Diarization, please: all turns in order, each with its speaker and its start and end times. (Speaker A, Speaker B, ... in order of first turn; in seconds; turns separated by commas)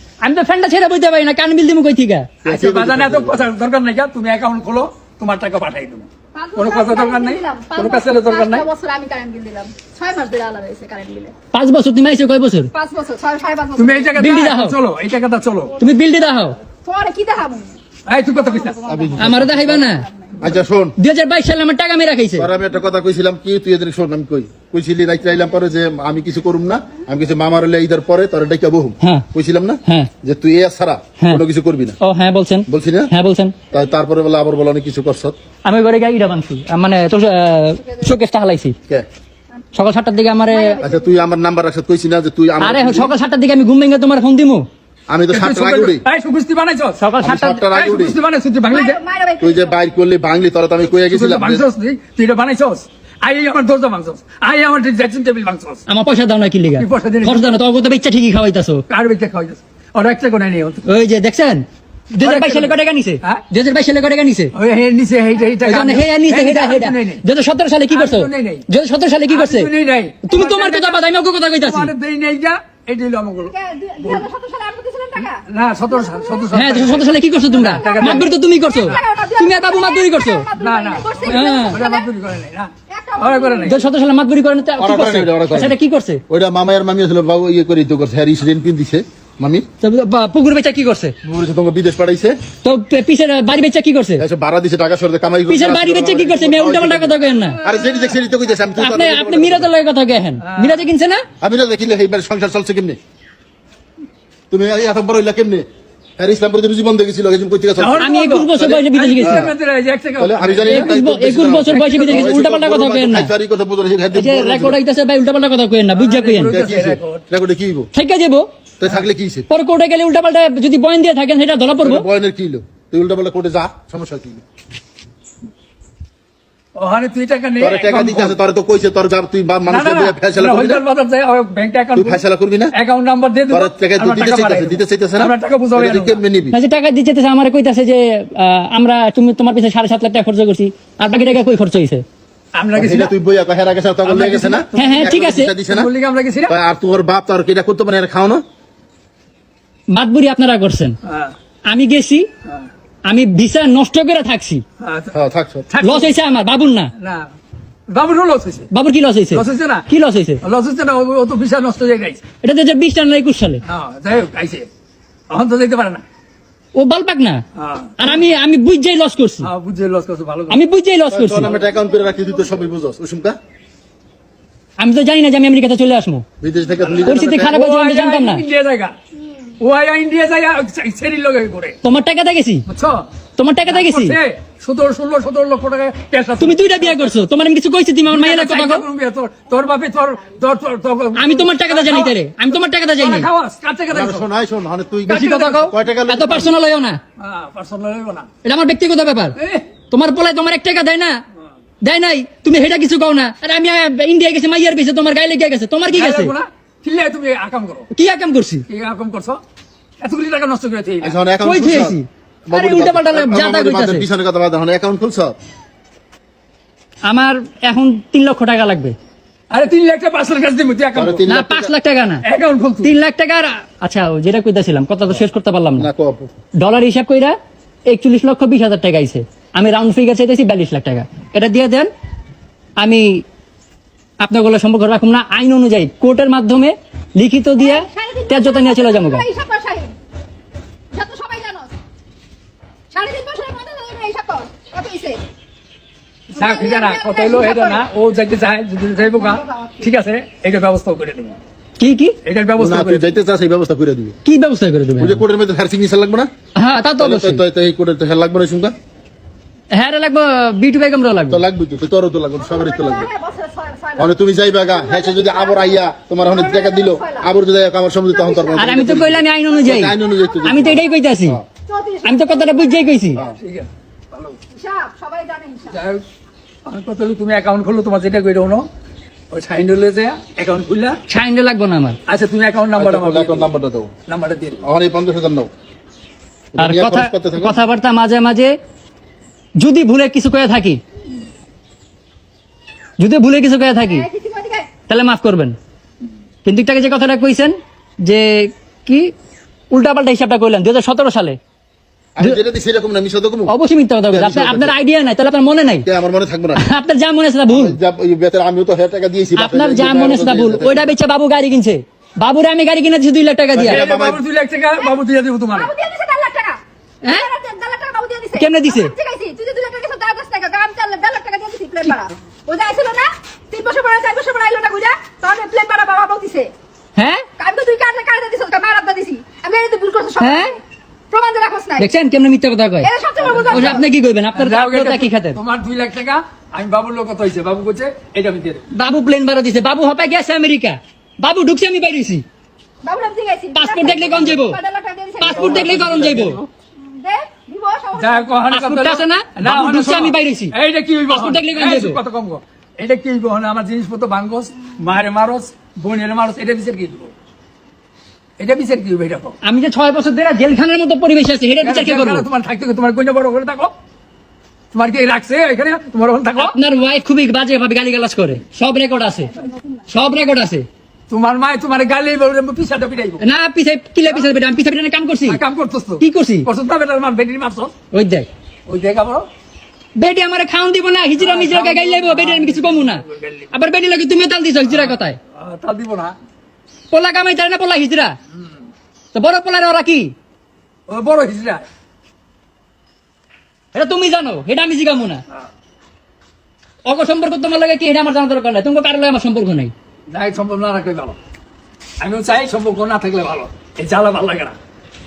Speaker A: 0.2-2.4, Speaker B: 2.4-3.5, Speaker C: 2.4-8.7, Speaker D: 6.3-11.3, Speaker A: 11.5-12.7, Speaker D: 12.7-14.3, Speaker C: 13.8-15.8, Speaker A: 14.2-14.8, Speaker A: 15.8-16.6, Speaker D: 16.7-17.8, Speaker C: 18.1-18.8, Speaker D: 18.7-20.3, Speaker B: 18.9-19.8, Speaker A: 19.2-20.1, Speaker B: 20.4-20.9, Speaker A: 21.0-22.5, Speaker B: 22.4-32.0, Speaker A: 29.0-29.3, Speaker A: 32.0-33.6, Speaker B: 32.7-33.1, Speaker B: 33.7-35.4, Speaker A: 35.7-38.8, Speaker A: 39.8-40.8, Speaker D: 40.5-41.1, Speaker B: 40.8-43.1, Speaker A: 42.6-44.7, Speaker B: 45.1-46.0, Speaker C: 45.3-47.0, Speaker A: 47.0-47.7, Speaker B: 47.2-48.2, Speaker C: 47.7-49.0, Speaker D: 48.7-49.7, Speaker B: 49.4-51.6, Speaker C: 50.9-55.9, Speaker A: 55.9-58.8, Speaker C: 56.8-57.5, Speaker C: 58.9-60.8, Speaker A: 60.9-64.5, Speaker C: 62.2-63.5, Speaker C: 64.5-67.2, Speaker A: 65.6-69.7, Speaker C: 67.9-68.7, Speaker C: 69.3-71.0, Speaker A: 70.2-71.9, Speaker C: 71.6-74.3, Speaker D: 73.5-76.9, Speaker C: 75.2-78.3, Speaker A: 76.5-80.5, Speaker D: 77.5-82.1, Speaker C: 80.6-83.8, Speaker A: 81.2-81.8, Speaker D: 82.9-83.8, Speaker A: 83.6-86.2, Speaker B: 84.8-85.8, Speaker B: 86.3-89.7, Speaker A: 89.8-91.2, Speaker B: 91.2-92.3, Speaker A: 92.6-94.2, Speaker B: 94.2-99.7, Speaker A: 95.5-97.6, Speaker C: 97.7-98.2, Speaker A: 98.8-101.3, Speaker C: 100.4-100.8, Speaker B: 101.4-103.0, Speaker B: 104.5-105.7, Speaker B: 106.2-108.1, Speaker C: 107.8-111.0, Speaker A: 108.0-109.5, Speaker B: 109.2-109.5, Speaker B: 110.2-114.8, Speaker A: 110.7-113.3, Speaker C: 111.7-112.4, Speaker A: 114.1-116.5, Speaker C: 115.9-117.2, Speaker B: 116.5-117.9, Speaker A: 117.9-118.5, Speaker B: 118.8-119.5, Speaker A: 119.5-122.1, Speaker B: 121.8-124.4, Speaker C: 126.8-128.4, Speaker B: 127.6-130.8, Speaker C: 129.7-132.2, Speaker B: 132.0-132.7, Speaker C: 132.7-136.2, Speaker B: 133.5-136.6, Speaker A: 136.5-142.1, Speaker C: 142.6-143.1, Speaker B: 142.8-145.9, Speaker C: 144.0-146.6, Speaker A: 144.8-145.5, Speaker B: 146.5-148.4, Speaker A: 149.9-151.0, Speaker C: 151.1-151.3, Speaker A: 151.7-152.3, Speaker A: 153.1-154.6, Speaker C: 154.8-155.1, Speaker B: 155.1-155.7, Speaker C: 155.7-156.1, Speaker A: 155.8-156.9, Speaker C: 157.0-157.3, Speaker C: 157.9-158.7, Speaker A: 158.7-160.4, Speaker C: 159.3-159.9, Speaker C: 160.4-162.2, Speaker A: 162.4-163.6, Speaker C: 163.7-164.7, Speaker C: 165.3-166.0, Speaker A: 166.8-167.4, Speaker C: 167.6-168.1, Speaker A: 168.0-169.5, Speaker C: 169.4-170.6, Speaker A: 170.5-171.5, Speaker B: 171.1-173.4, Speaker A: 174.8-176.2, Speaker B: 176.4-177.6, Speaker C: 176.8-178.9, Speaker A: 177.1-178.4, Speaker C: 179.6-181.8, Speaker A: 181.8-182.7, Speaker C: 182.7-183.1, Speaker A: 183.4-184.2, Speaker C: 183.7-187.1, Speaker A: 186.4-188.8, Speaker C: 188.1-192.2, Speaker A: 191.2-193.3, Speaker C: 193.0-194.3, Speaker B: 193.9-196.5, Speaker A: 195.1-197.0, Speaker C: 197.2-198.3, Speaker A: 198.4-199.4, Speaker C: 199.4-199.8, Speaker A: 199.9-201.2, Speaker A: 201.8-206.3, Speaker C: 205.9-207.9, Speaker A: 207.9-208.7, Speaker C: 208.7-209.4, Speaker C: 210.0-211.2, Speaker B: 211.0-215.3, Speaker A: 211.4-214.1, Speaker A: 217.1-219.0, Speaker C: 219.5-221.2, Speaker B: 221.0-221.7, Speaker A: 221.3-222.2, Speaker C: 222.2-222.9, Speaker A: 222.8-225.9, Speaker B: 225.8-226.3, Speaker A: 226.6-231.9, Speaker A: 232.8-233.2, Speaker A: 234.2-239.3, Speaker D: 237.6-239.9, Speaker D: 240.9-241.7, Speaker D: 242.9-245.2, Speaker C: 246.3-251.4, Speaker D: 246.3-247.9, Speaker D: 249.0-249.9, Speaker A: 251.8-252.2, Speaker C: 252.2-253.1, Speaker B: 252.6-254.2, Speaker A: 254.2-255.2, Speaker B: 255.0-256.3, Speaker A: 256.6-257.4, Speaker B: 257.0-258.7, Speaker A: 259.7-261.4, Speaker B: 261.3-263.1, Speaker D: 262.4-267.3, Speaker B: 264.0-271.4, Speaker D: 268.1-269.0, Speaker A: 268.6-271.4, Speaker D: 270.1-270.4, Speaker D: 271.7-273.0, Speaker A: 272.0-273.2, Speaker C: 273.4-274.4, Speaker D: 274.5-275.8, Speaker C: 275.7-276.0, Speaker C: 276.7-278.7, Speaker C: 279.3-281.0, Speaker A: 281.1-282.0, Speaker C: 282.1-283.5, Speaker B: 282.8-283.9, Speaker C: 284.1-284.6, Speaker B: 284.6-285.5, Speaker B: 286.5-287.6, Speaker A: 286.6-288.6, Speaker A: 289.6-290.8, Speaker A: 293.0-294.1, Speaker D: 293.9-294.7, Speaker A: 294.9-295.6, Speaker A: 296.4-299.1, Speaker A: 299.7-301.4, Speaker B: 302.2-303.5, Speaker A: 303.5-305.9, Speaker B: 304.1-304.8, Speaker B: 305.9-306.7, Speaker A: 306.6-307.8, Speaker B: 307.5-310.9, Speaker A: 309.4-313.8, Speaker B: 313.5-314.2, Speaker C: 313.6-315.7, Speaker D: 315.5-326.5, Speaker A: 318.4-318.9, Speaker A: 327.0-327.2, Speaker D: 327.4-330.6, Speaker A: 330.2-330.5, Speaker D: 331.1-331.9, Speaker A: 331.8-335.4, Speaker D: 332.8-333.9, Speaker C: 333.2-333.7, Speaker C: 334.4-338.7, Speaker A: 338.7-342.2, Speaker D: 342.8-345.8, Speaker A: 343.5-344.6, Speaker A: 345.2-346.4, Speaker B: 345.2-346.5, Speaker D: 346.8-348.3, Speaker C: 348.0-357.1, Speaker A: 348.5-350.6, Speaker A: 351.1-352.0, Speaker C: 358.4-359.4, Speaker A: 359.4-362.3, Speaker C: 361.6-363.8, Speaker C: 364.7-366.5, Speaker A: 366.4-369.3, Speaker A: 369.9-370.7, Speaker C: 371.1-373.2, Speaker A: 373.2-375.4, Speaker C: 375.3-377.7, Speaker A: 376.0-376.5, Speaker A: 377.9-378.3, Speaker C: 378.7-379.3, Speaker A: 380.0-385.2, Speaker C: 381.2-383.5, Speaker C: 384.7-386.2, Speaker A: 386.9-388.2, Speaker A: 389.1-390.1, Speaker C: 390.9-391.7, Speaker A: 393.7-395.2, Speaker A: 396.9-399.7, Speaker C: 400.1-401.2, Speaker C: 402.0-404.6